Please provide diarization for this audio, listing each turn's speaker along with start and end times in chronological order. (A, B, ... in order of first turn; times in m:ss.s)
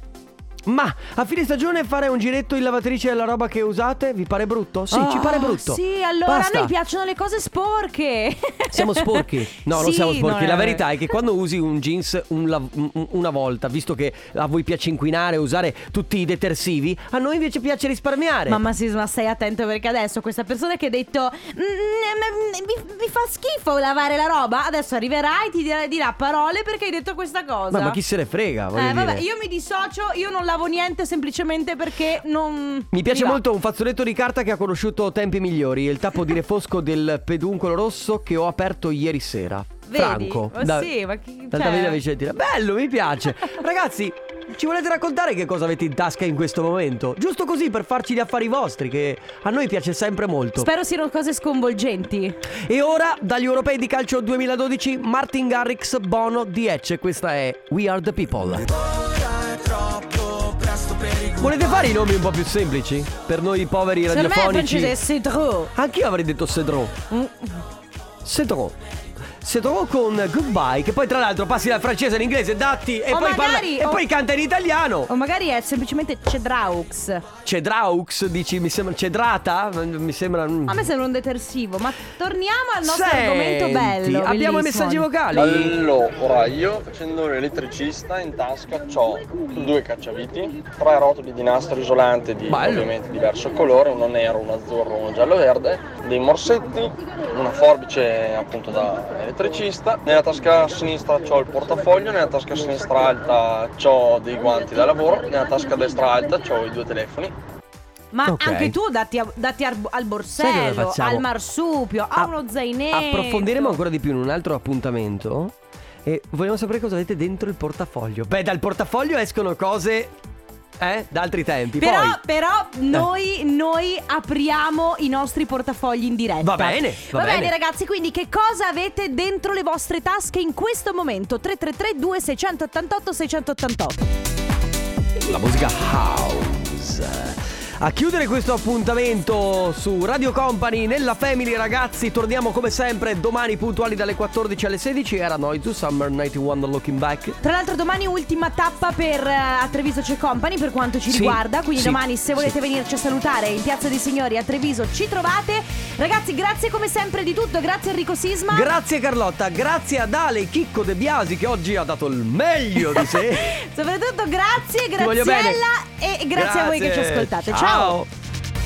0:00.7-0:06.7 A
0:04.9-0:10.9 B
0:08.7-0:18.6 A
0:18.5-0:28.0 B
0:27.7-0:29.2 A
0:28.7-0:33.4 B
0:32.9-0:40.9 A
0:39.9-0:42.0 B
0:41.5-0:50.7 A
0:50.6-0:52.4 B
0:52.6-0:58.7 A
1:01.3-1:05.0 A
1:04.1-1:05.7 B
1:05.8-1:07.0 A
1:07.1-1:07.6 B
1:08.2-1:08.8 A
1:09.4-1:15.1 A
1:13.1-1:14.0 B
1:15.1-1:17.2 B
1:17.4-1:20.9 A
1:20.7-1:25.1 B
1:22.8-1:25.8 A
1:25.3-1:47.4 C
1:32.5-1:32.9 A
1:48.1-1:53.8 B
1:48.3-1:48.8 A
1:50.4-1:51.3 A
1:52.9-2:00.1 A
2:00.8-2:02.2 A
2:01.8-2:14.0 B
2:06.4-2:07.6 A
2:15.2-2:27.4 A
2:27.4-2:38.7 B
2:31.1-2:32.5 A
2:38.5-2:43.6 A
2:42.8-2:48.0 B
2:45.0-2:45.6 A
2:46.4-2:48.1 A